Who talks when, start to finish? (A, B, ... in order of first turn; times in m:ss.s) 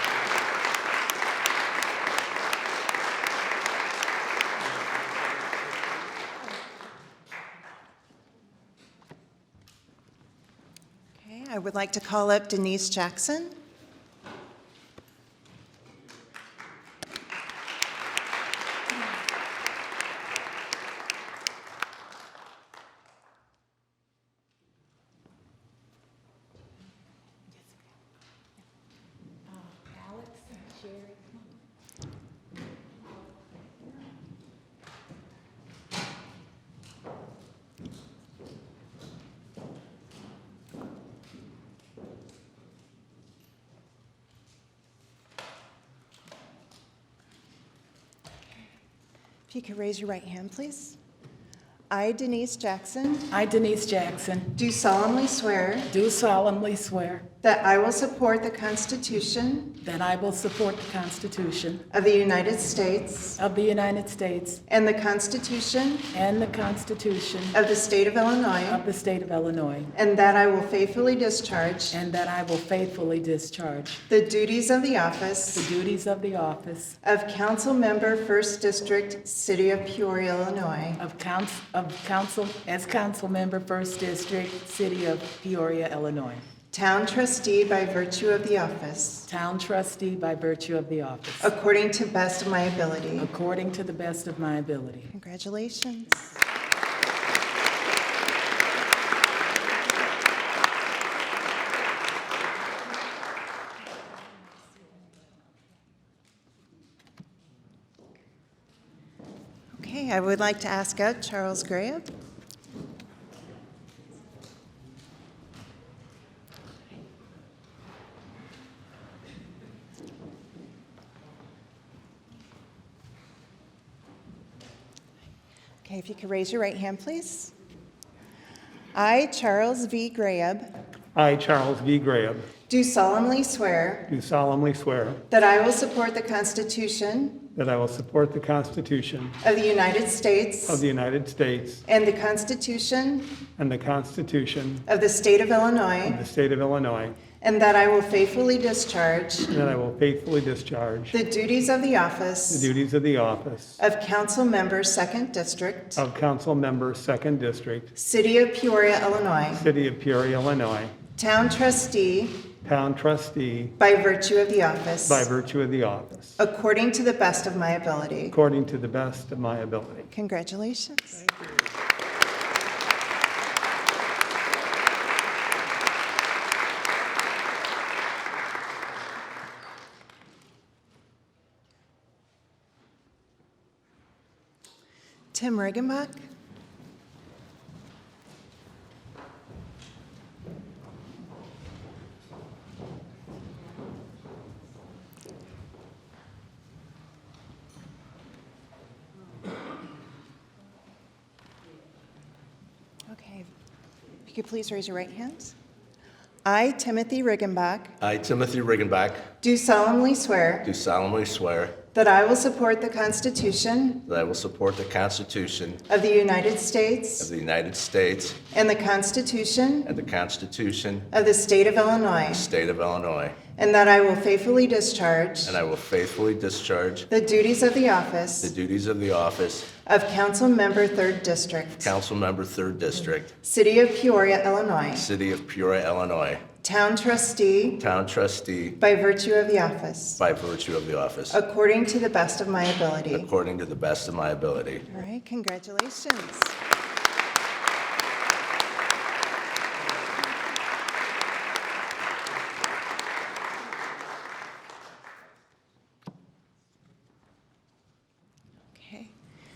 0:11.2-0:13.6 A
0:29.9-0:31.2 B
0:49.5-0:51.0 A
0:51.9-0:53.3 A
0:53.3-0:54.5 B
0:54.6-0:55.9 A
0:55.9-0:57.2 B
0:57.4-0:59.8 A
0:59.8-1:01.8 B
1:01.9-1:03.4 A
1:03.4-1:04.6 B
1:04.7-1:06.1 A
1:06.1-1:07.6 B
1:07.5-1:08.8 A
1:08.7-1:09.9 B
1:09.9-1:12.0 A
1:11.9-1:14.0 B
1:14.1-1:15.7 A
1:15.5-1:17.0 B
1:17.0-1:21.0 A
1:21.0-1:26.5 B
1:26.7-1:29.3 A
1:29.3-1:31.5 B
1:31.4-1:33.3 A
1:33.2-1:35.1 B
1:35.1-1:36.4 A
1:49.8-1:52.1 A
2:05.8-2:07.5 A
2:08.9-2:10.7 A
2:11.2-2:12.5 C
2:12.7-2:14.1 A
2:14.1-2:15.2 C
2:15.3-2:17.4 A
2:17.6-2:19.4 C
2:19.4-2:20.8 A
2:20.7-2:21.8 C
2:21.9-2:23.4 A
2:23.6-2:24.8 C
2:24.9-2:26.2 A
2:26.0-2:27.2 C
2:27.4-2:29.5 A
2:29.5-2:31.2 C
2:31.1-2:32.7 A
2:32.5-2:33.8 C
2:33.8-2:36.0 A
2:36.0-2:37.9 C
2:38.0-2:39.7 A
2:39.5-2:40.9 C
2:41.2-2:42.5 A
2:42.6-2:43.7 C
2:43.8-2:45.3 A
2:45.1-2:46.4 C
2:46.4-2:48.4 A
2:48.3-2:50.1 C
2:50.1-2:51.2 A
2:51.1-2:51.7 C
3:05.3-3:06.2 A
3:23.1-3:23.5 A
3:24.2-3:25.6 A
3:26.4-3:28.0 A
3:28.0-3:29.2 D
3:29.4-3:30.7 A
3:30.6-3:31.8 D
3:31.9-3:34.0 A
3:34.1-3:35.8 D
3:35.9-3:37.3 A
3:37.2-3:38.4 D
3:38.5-3:39.9 A
3:39.8-3:41.1 D
3:41.1-3:42.5 A
3:42.3-3:43.4 D
3:43.6-3:45.6 A
3:45.4-3:47.1 D
3:47.1-3:48.5 A
3:48.4-3:49.7 D
3:49.8-3:51.9 A
3:51.8-3:53.3 D
3:53.4-3:55.1 A
3:54.9-3:56.4 D
3:56.6-3:57.8 A
3:57.8-3:58.8 D
3:58.8-4:00.2 A
4:00.2-4:01.4 D
4:01.3-4:03.3 A
4:03.1-4:04.9 D
4:04.9-4:06.6 A
4:18.8-4:19.1 A